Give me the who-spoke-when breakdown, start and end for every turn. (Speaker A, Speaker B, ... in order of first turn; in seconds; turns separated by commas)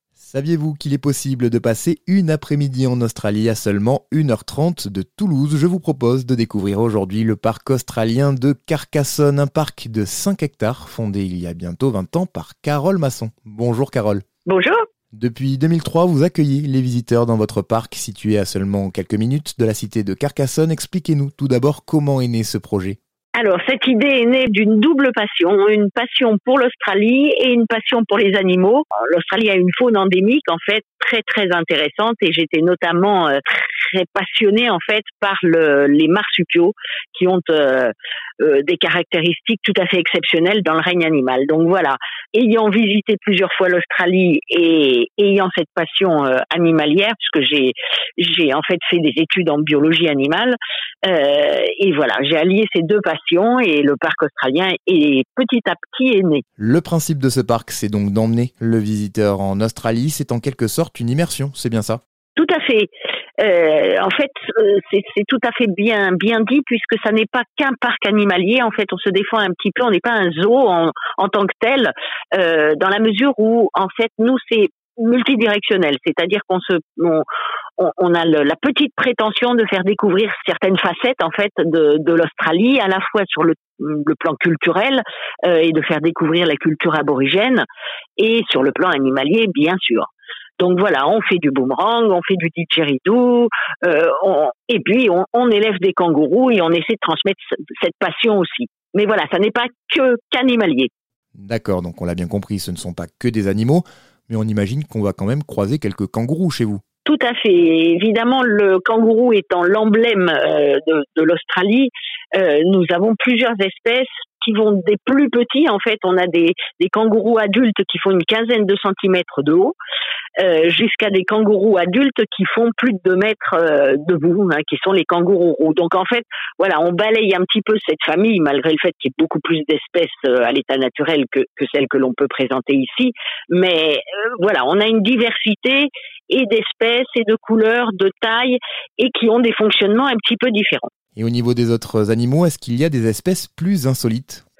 Speaker A: 0.2-14.2, Speaker B: 14.5-14.8, Speaker A: 15.1-23.0, Speaker B: 23.3-56.4, Speaker A: 56.6-62.0, Speaker B: 62.4-77.3, Speaker B: 77.8-87.6, Speaker B: 88.2-100.9, Speaker A: 101.4-106.8, Speaker B: 107.0-119.8, Speaker B: 120.4-140.9, Speaker A: 141.2-144.4